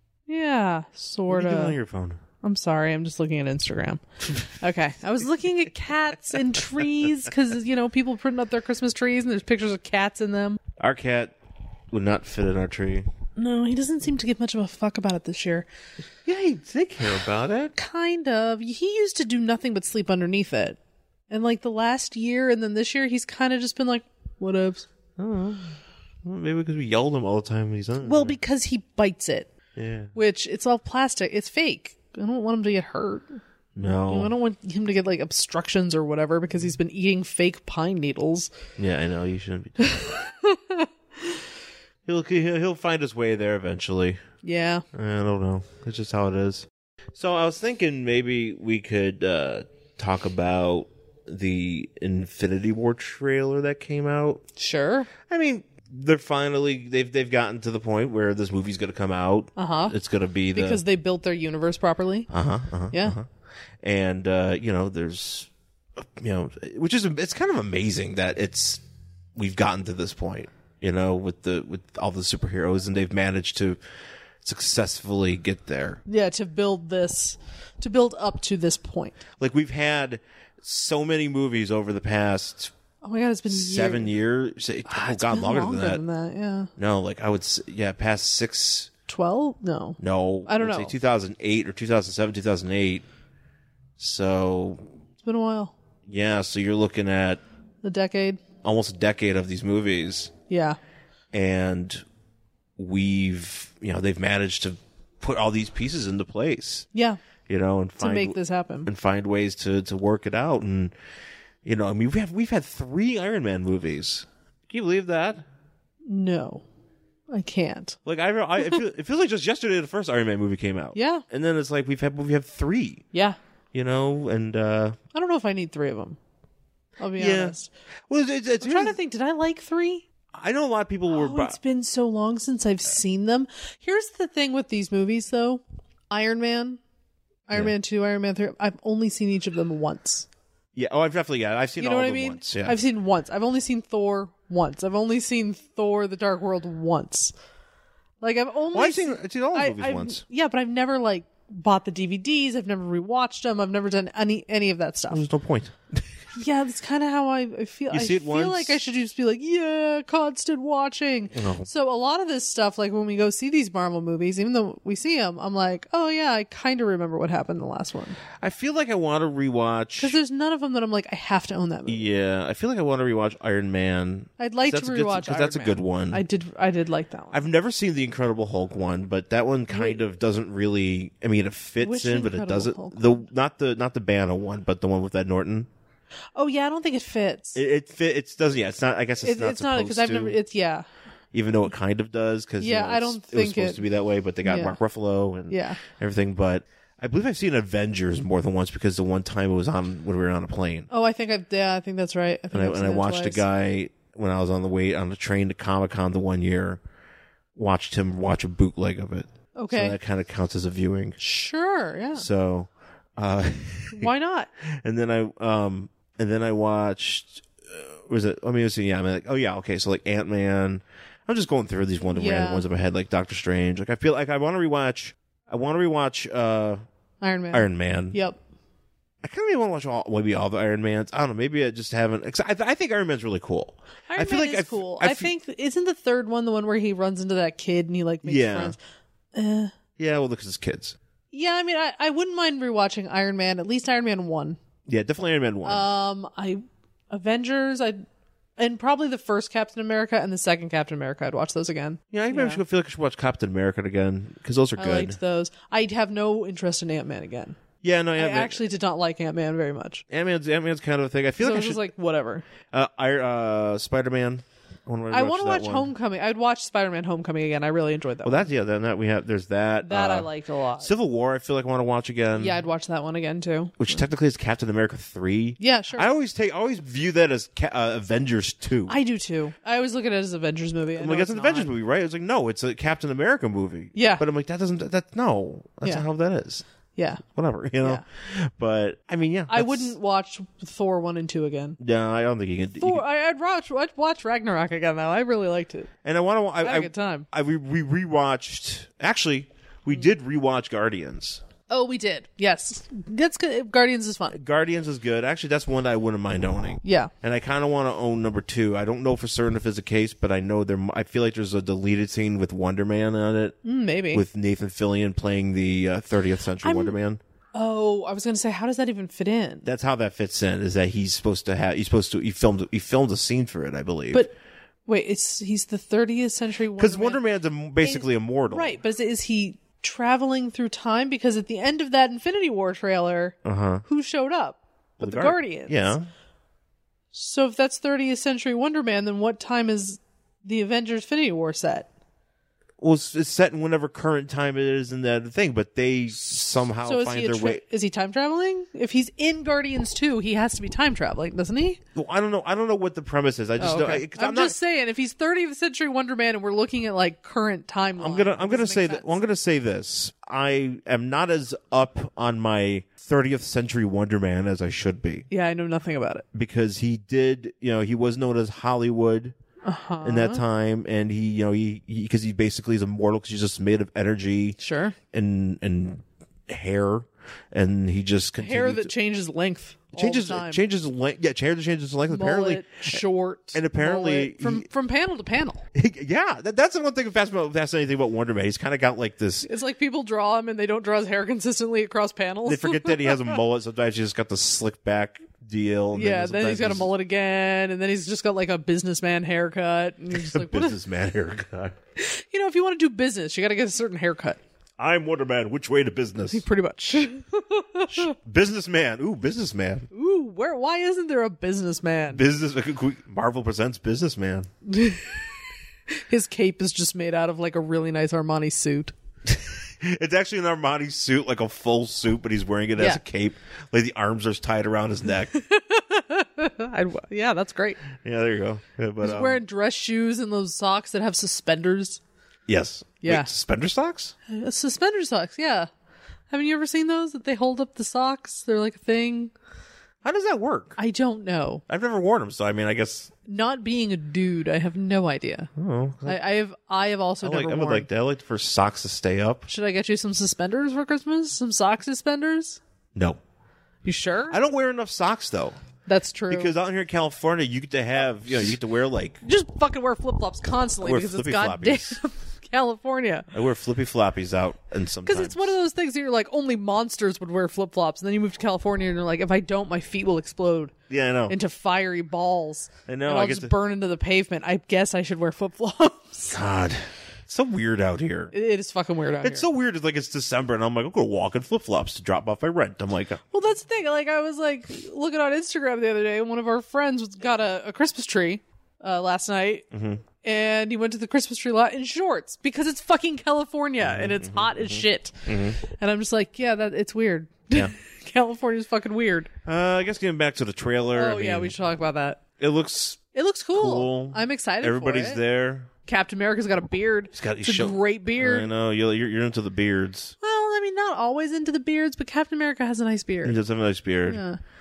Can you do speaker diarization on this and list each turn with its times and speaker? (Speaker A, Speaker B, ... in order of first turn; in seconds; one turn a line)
Speaker A: 0.3-1.8
Speaker B: 1.3-2.2
Speaker A: 2.4-10.6
Speaker B: 10.8-11.3
Speaker B: 11.9-13.1
Speaker A: 13.4-15.7
Speaker B: 16.2-17.8
Speaker A: 17.8-20.8
Speaker A: 21.3-24.9
Speaker B: 25.2-28.4
Speaker A: 28.0-29.5
Speaker B: 29.8-30.1
Speaker A: 30.1-38.5
Speaker B: 33.8-34.3
Speaker B: 38.8-40.1
Speaker A: 39.8-41.4
Speaker B: 42.1-44.2
Speaker A: 44.4-44.9
Speaker B: 44.9-54.4
Speaker A: 54.6-55.1
Speaker B: 55.3-60.8
Speaker A: 59.6-60.0
Speaker A: 60.5-62.3
Speaker B: 62.3-63.3
Speaker B: 63.8-68.8
Speaker B: 69.3-73.8
Speaker B: 74.4-76.0
Speaker A: 76.1-79.2
Speaker B: 79.4-82.7
Speaker A: 83.0-84.1
Speaker B: 83.5-86.0
Speaker A: 84.9-86.7
Speaker B: 86.8-88.9
Speaker A: 89.1-90.9
Speaker B: 90.0-93.0
Speaker B: 94.0-94.8
Speaker A: 95.2-95.8
Speaker B: 96.1-97.4
Speaker A: 97.8-98.4
Speaker B: 98.6-100.3
Speaker A: 100.5-100.8
Speaker B: 101.3-102.0
Speaker B: 102.8-106.9
Speaker B: 107.5-110.9
Speaker A: 108.0-108.9
Speaker B: 111.6-115.5
Speaker A: 116.1-116.7
Speaker A: 117.3-118.0
Speaker B: 118.1-123.0
Speaker A: 121.0-121.2
Speaker B: 123.7-125.0
Speaker A: 125.1-126.2
Speaker A: 127.0-127.7
Speaker B: 127.2-127.6
Speaker B: 128.1-129.0
Speaker A: 128.6-130.1
Speaker B: 130.3-131.6
Speaker A: 131.1-136.8
Speaker A: 137.5-140.3
Speaker B: 140.8-142.8
Speaker A: 141.8-147.3
Speaker A: 148.2-155.3
Speaker B: 148.7-150.2
Speaker B: 155.1-156.0
Speaker A: 156.3-168.2
Speaker B: 157.9-158.8
Speaker B: 161.3-161.7
Speaker B: 168.4-170.2
Speaker A: 170.0-172.1
Speaker B: 171.9-176.2
Speaker A: 174.4-177.4
Speaker B: 177.3-185.7
Speaker A: 179.7-180.0
Speaker A: 181.8-183.2
Speaker A: 186.4-187.6
Speaker B: 187.6-190.4
Speaker A: 189.2-190.9
Speaker B: 191.3-200.9
Speaker A: 192.6-193.8
Speaker A: 194.4-194.8
Speaker A: 195.5-195.8
Speaker A: 200.9-203.4
Speaker B: 202.5-206.8
Speaker B: 207.6-211.2
Speaker A: 209.6-210.0
Speaker A: 211.2-212.3
Speaker B: 212.2-214.1
Speaker A: 213.9-214.5
Speaker B: 214.6-226.8
Speaker A: 222.1-222.7
Speaker A: 227.2-228.4
Speaker B: 227.5-228.2
Speaker B: 229.2-235.3
Speaker A: 234.1-238.8
Speaker B: 238.2-238.8
Speaker A: 239.3-239.7
Speaker B: 240.0-241.0
Speaker A: 241.3-244.6
Speaker B: 244.9-245.9
Speaker A: 245.7-248.0
Speaker A: 248.6-252.6
Speaker B: 252.1-255.2
Speaker A: 254.8-257.6
Speaker B: 257.8-258.6
Speaker A: 258.2-260.0
Speaker B: 260.1-261.8
Speaker A: 261.4-262.5
Speaker B: 262.7-265.9
Speaker A: 265.1-268.5
Speaker B: 268.2-272.6
Speaker A: 269.8-270.9
Speaker A: 272.4-273.9
Speaker B: 273.8-279.0
Speaker A: 275.6-276.1
Speaker A: 278.9-281.7
Speaker B: 280.9-286.6
Speaker A: 283.9-284.2
Speaker A: 287.0-287.2
Speaker B: 287.3-289.9
Speaker A: 289.5-291.8
Speaker B: 291.8-293.0
Speaker A: 292.8-295.9
Speaker B: 296.0-301.4
Speaker A: 296.6-297.3
Speaker A: 301.7-304.4
Speaker B: 304.3-313.6
Speaker A: 306.8-307.1
Speaker A: 313.6-314.2
Speaker B: 314.1-317.2
Speaker A: 316.6-317.0
Speaker A: 317.5-319.7
Speaker B: 319.6-324.2
Speaker A: 324.9-327.2
Speaker B: 326.8-328.8
Speaker A: 327.8-336.0
Speaker B: 333.4-333.8
Speaker B: 335.0-336.1
Speaker A: 337.1-341.9
Speaker B: 342.8-347.6
Speaker A: 346.8-351.8
Speaker B: 351.9-354.6
Speaker A: 353.6-359.1
Speaker B: 358.0-365.3
Speaker A: 365.3-366.2
Speaker B: 366.3-369.4
Speaker A: 369.6-370.4
Speaker B: 370.0-374.6
Speaker A: 374.6-375.0
Speaker B: 375.1-378.9
Speaker A: 378.4-380.6
Speaker B: 379.9-383.0
Speaker A: 382.1-385.7
Speaker B: 383.5-384.7
Speaker B: 385.7-389.5
Speaker A: 389.4-393.4
Speaker B: 392.5-396.9
Speaker A: 395.9-400.8
Speaker B: 400.1-401.8
Speaker A: 402.0-404.4
Speaker B: 404.8-406.4
Speaker A: 406.3-408.1
Speaker B: 407.9-409.9
Speaker A: 409.9-412.2
Speaker B: 412.1-414.5
Speaker A: 414.7-415.3
Speaker A: 415.9-418.9
Speaker B: 419.3-425.3
Speaker A: 425.3-427.8
Speaker B: 427.9-429.4
Speaker A: 429.0-432.0
Speaker B: 432.5-434.1
Speaker A: 433.0-433.3
Speaker A: 434.3-435.7
Speaker A: 436.3-439.3
Speaker B: 440.0-440.8
Speaker A: 440.8-441.6
Speaker B: 441.7-443.1
Speaker A: 443.3-445.5
Speaker B: 445.6-446.2
Speaker A: 446.1-447.9
Speaker B: 447.2-449.5
Speaker A: 449.5-452.6
Speaker B: 452.9-453.2
Speaker A: 453.8-454.4
Speaker B: 454.3-455.6
Speaker A: 455.9-456.5
Speaker B: 456.3-459.2
Speaker A: 459.2-463.3
Speaker B: 460.8-462.0
Speaker B: 463.3-465.5
Speaker A: 465.1-470.7
Speaker B: 470.9-471.4
Speaker A: 471.3-476.4
Speaker B: 472.9-473.5
Speaker B: 476.3-478.3
Speaker A: 478.3-479.5
Speaker B: 479.2-483.2
Speaker A: 483.3-489.6
Speaker B: 489.7-490.0
Speaker A: 490.2-499.3
Speaker B: 493.8-495.6
Speaker B: 499.4-501.6
Speaker A: 500.9-502.2
Speaker B: 502.4-503.0
Speaker A: 503.1-505.2
Speaker B: 503.5-505.7
Speaker A: 505.9-508.5
Speaker B: 507.1-510.1
Speaker A: 510.2-513.4
Speaker B: 513.2-514.2
Speaker A: 514.1-514.4